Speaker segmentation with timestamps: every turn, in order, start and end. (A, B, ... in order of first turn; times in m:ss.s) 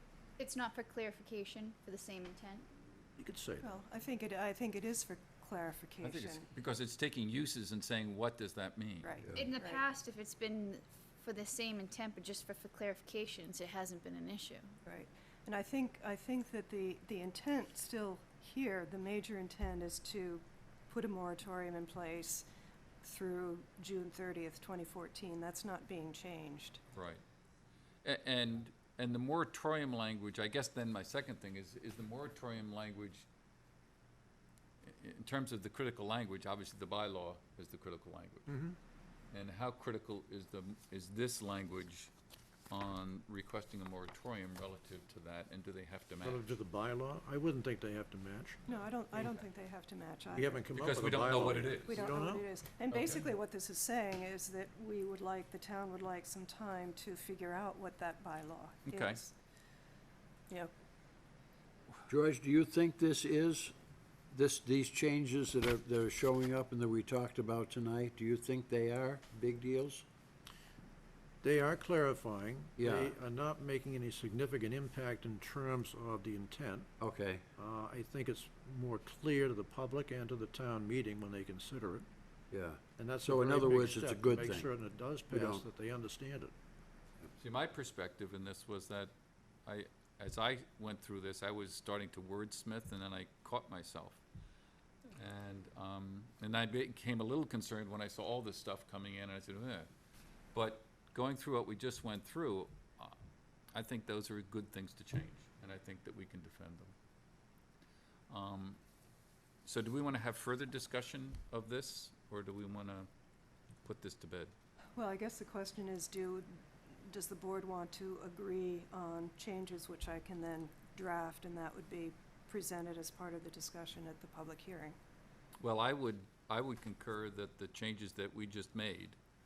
0:00.4-0:02.6 A
0:03.2-0:03.7 B
0:03.6-0:06.4 C
0:06.0-0:09.2 D
0:09.0-0:09.8 C
0:09.3-0:14.7 A
0:14.8-0:22.5 C
0:23.0-0:26.8 C
0:26.9-0:27.2 D
0:28.0-0:33.3 D
0:34.8-0:38.5 D
0:38.5-0:38.8 B
0:39.3-0:42.1 D
0:42.7-0:46.4 D
0:46.2-0:48.6 B
0:48.7-0:50.7 C
0:48.7-0:49.3 D
0:50.3-0:52.5 B
0:50.7-0:52.1 D
0:51.8-0:59.3 C
0:52.9-0:53.2 D
0:58.9-0:59.2 D
1:02.1-1:03.7 E
1:04.3-1:10.0 E
1:11.4-1:16.9 B
1:12.8-1:13.1 E
1:17.0-1:17.4 E
1:17.6-1:22.0 B
1:22.5-1:24.7 E
1:23.0-1:26.5 B
1:25.3-1:25.6 E
1:27.4-1:29.1 D
1:29.6-1:34.2 D
1:35.1-1:39.9 D
1:40.5-1:43.2 D
1:43.7-1:46.9 D
1:48.3-1:48.8 D
1:49.6-1:53.1 D
1:53.8-1:54.5 D
1:55.0-2:05.0 C
2:05.6-2:09.2 D